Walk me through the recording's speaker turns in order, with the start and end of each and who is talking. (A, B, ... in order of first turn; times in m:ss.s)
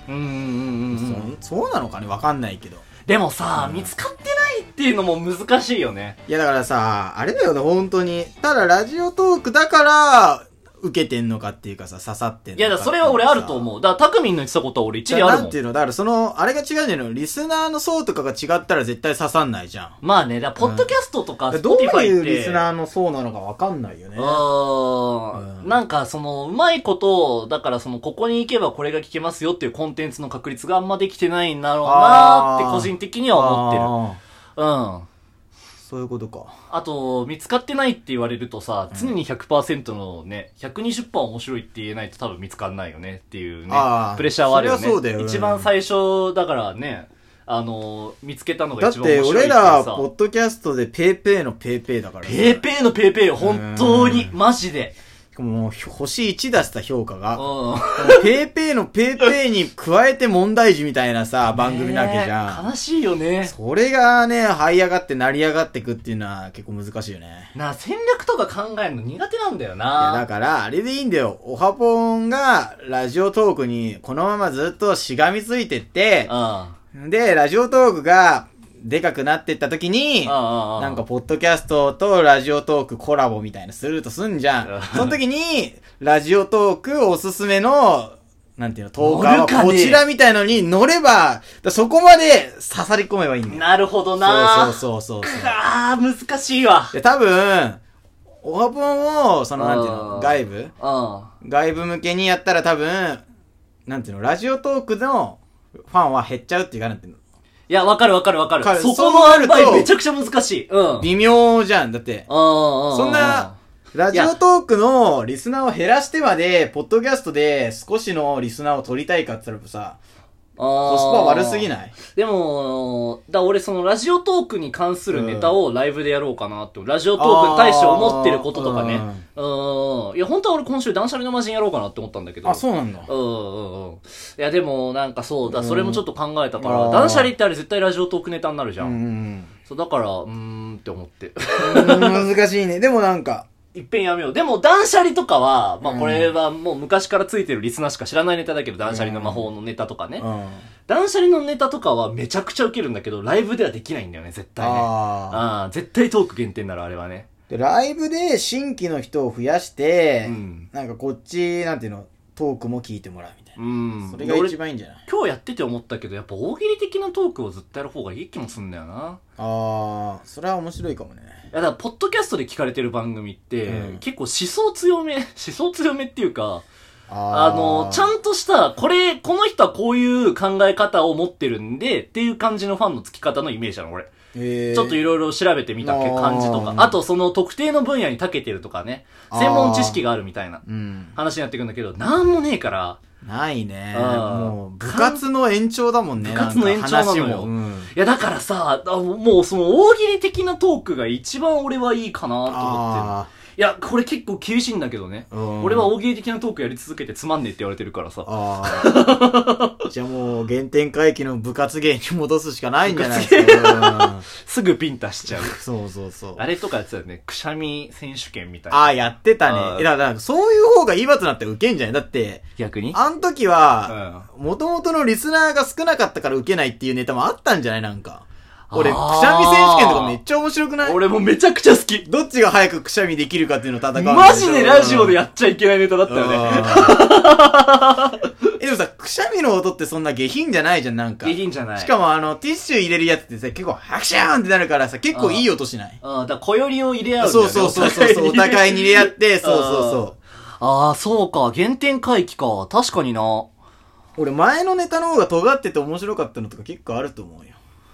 0:00.1-0:01.3 A
0:00.9-0:02.8 B
0:03.1-0:06.2 A
0:03.6-0:03.9 B
0:06.3-0:13.7 B
0:12.6-0:15.6 A
0:15.1-0:20.0 B
0:20.0-0:22.7 A
0:20.6-0:20.9 B
0:21.5-0:24.5 B
0:24.2-0:33.9 A
0:25.3-0:25.8 B
0:31.8-0:34.2 B
0:34.6-0:35.1 A
0:35.8-0:36.5 B
0:36.7-0:50.1 A
0:43.7-0:45.7 B
0:48.8-0:52.6 B
0:52.2-0:55.0 A
0:53.4-0:54.4 B
0:55.4-0:57.4 B
0:57.4-0:58.3 A
0:58.0-1:02.7 B
1:01.6-1:03.5 A
1:03.5-1:07.5 B
1:07.6-1:10.2 A
1:10.0-1:16.3 B
1:16.3-1:16.8 A
1:16.9-1:33.6 B
1:20.2-1:21.0 A
1:24.6-1:25.2 A
1:29.0-1:30.0 A
1:33.5-1:37.0 A
1:34.2-1:35.6 B
1:36.9-1:37.8 B
1:38.4-1:40.7 B
1:39.6-1:41.3 A
1:41.4-1:43.2 B
1:43.9-1:47.2 B
1:47.7-1:51.1 A
1:48.6-1:49.9 B
1:51.0-1:52.3 B
1:52.3-1:53.6 A
1:52.9-2:00.0 B
2:00.6-2:18.9 A
2:00.8-2:02.0 B
2:05.1-2:05.6 B
2:07.2-2:09.2 B
2:12.4-2:13.1 B
2:15.4-2:16.0 B
2:16.6-2:17.3 B
2:18.8-2:19.5 B
2:19.7-2:22.3 A
2:21.6-2:23.5 B
2:23.7-2:30.2 A
2:25.8-2:26.4 B
2:28.9-2:29.5 B
2:30.2-2:30.7 B
2:30.9-2:37.3 A
2:34.6-2:35.4 B
2:37.5-2:45.0 B
2:40.2-2:40.7 A
2:43.6-2:44.6 A
2:45.1-2:49.2 A
2:49.4-2:51.4 B
2:51.5-2:56.6 A
2:53.6-2:54.0 B
2:57.1-2:58.1 B
2:57.3-3:04.1 A
3:04.3-3:05.0 B
3:04.7-3:10.6 A
3:05.8-3:07.0 B
3:09.3-3:10.0 B
3:10.7-3:11.2 B
3:11.2-3:13.0 A
3:13.2-3:17.9 B
3:13.9-3:15.2 A
3:16.2-3:29.8 A
3:22.5-3:23.3 B
3:25.3-3:25.9 B
3:28.3-3:29.1 B
3:29.9-3:34.3 B
3:32.9-3:35.6 A
3:35.3-3:36.4 B
3:36.4-3:38.9 A
3:38.7-3:51.0 B
3:39.4-3:39.9 A
3:42.6-3:43.0 A
3:43.9-3:44.3 A
3:48.7-3:50.2 A
3:50.8-3:52.1 A
3:52.0-3:55.2 B
3:54.0-3:58.2 A
3:56.1-3:57.1 B
3:58.6-4:06.0 B
4:01.2-4:01.9 A
4:05.1-4:05.5 A
4:06.0-4:10.1 A
4:07.2-4:10.2 B
4:10.6-4:13.5 A
4:14.2-4:17.6 B